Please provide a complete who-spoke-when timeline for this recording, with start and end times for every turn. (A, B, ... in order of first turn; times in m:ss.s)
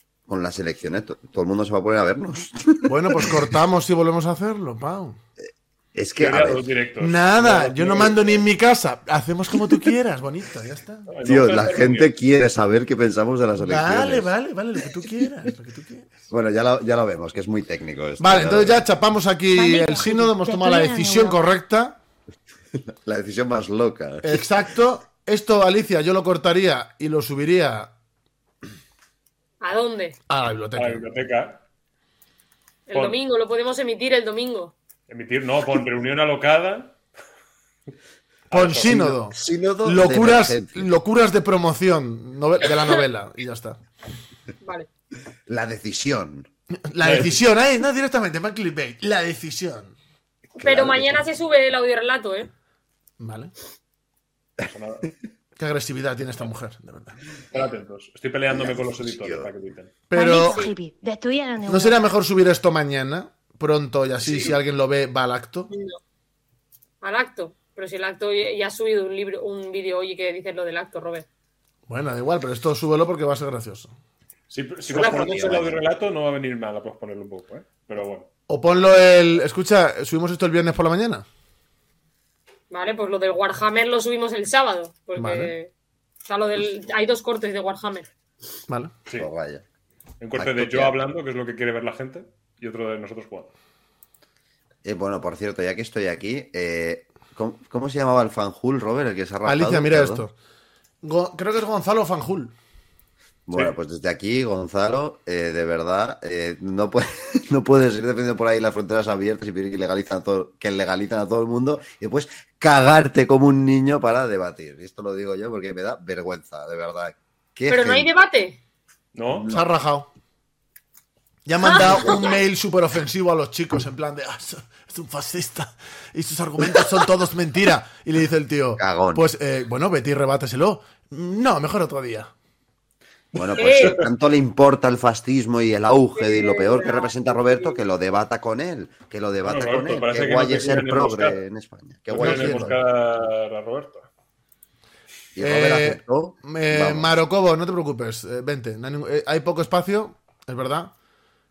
0:00.3-0:03.3 A
0:02.8-0:05.2 B
0:05.9-0:06.6 A
0:06.2-0:08.4 C
0:07.0-0:11.1 B
0:11.1-0:12.1 C
0:11.2-0:14.3 A
0:13.6-0:16.3 B
0:16.3-0:18.8 A
0:18.2-0:22.0 B
0:19.5-0:21.5 D
0:23.0-0:24.5 A
0:24.2-0:27.9 B
0:29.6-0:30.2 E
0:30.3-0:31.0 B
0:30.8-0:31.6 C
0:32.9-0:34.7 E
0:32.9-0:33.2 C
0:35.1-0:37.0 C
0:38.5-0:39.2 C
0:38.5-0:43.8 B
0:38.9-0:40.9 A
0:44.6-0:44.9 E
0:45.5-0:46.5 A
0:46.8-0:49.9 B
0:47.0-0:47.4 C
0:50.6-0:51.2 A
0:50.6-0:52.5 E
0:53.2-0:53.5 B
0:54.6-0:55.1 C
0:55.6-0:57.2 B
0:57.5-0:59.9 C
0:58.5-0:59.5 A
1:00.1-1:00.6 B
1:00.1-1:02.0 D
1:00.2-1:00.7 E
1:01.7-1:05.7 B
1:04.3-1:04.5 C
1:05.7-1:06.0 E
1:07.0-1:11.3 E
1:11.9-1:13.9 B
1:14.5-1:18.3 C
1:14.9-1:15.8 E
1:18.5-1:21.2 B
1:22.7-1:25.7 E
1:25.2-1:25.5 B
1:26.3-1:28.1 E
1:29.2-1:29.6 A
1:30.2-1:33.5 C
1:30.4-1:31.0 A
1:34.8-1:40.2 A
1:39.4-1:40.3 B
1:41.0-1:42.5 B
1:43.5-1:58.1 A
1:57.7-1:58.6 E
1:59.1-1:59.5 C
1:59.3-1:59.6 A
1:59.5-2:00.1 B
2:01.4-2:12.3 B
2:01.6-2:02.4 E
2:08.8-2:09.2 A
2:13.3-2:22.8 A
2:13.4-2:14.0 C
2:13.6-2:14.0 E
2:16.1-2:17.8 E
2:19.4-2:21.4 C
2:22.1-2:24.1 C
2:22.2-2:22.7 B
2:25.4-2:27.1 A
2:25.4-2:30.9 B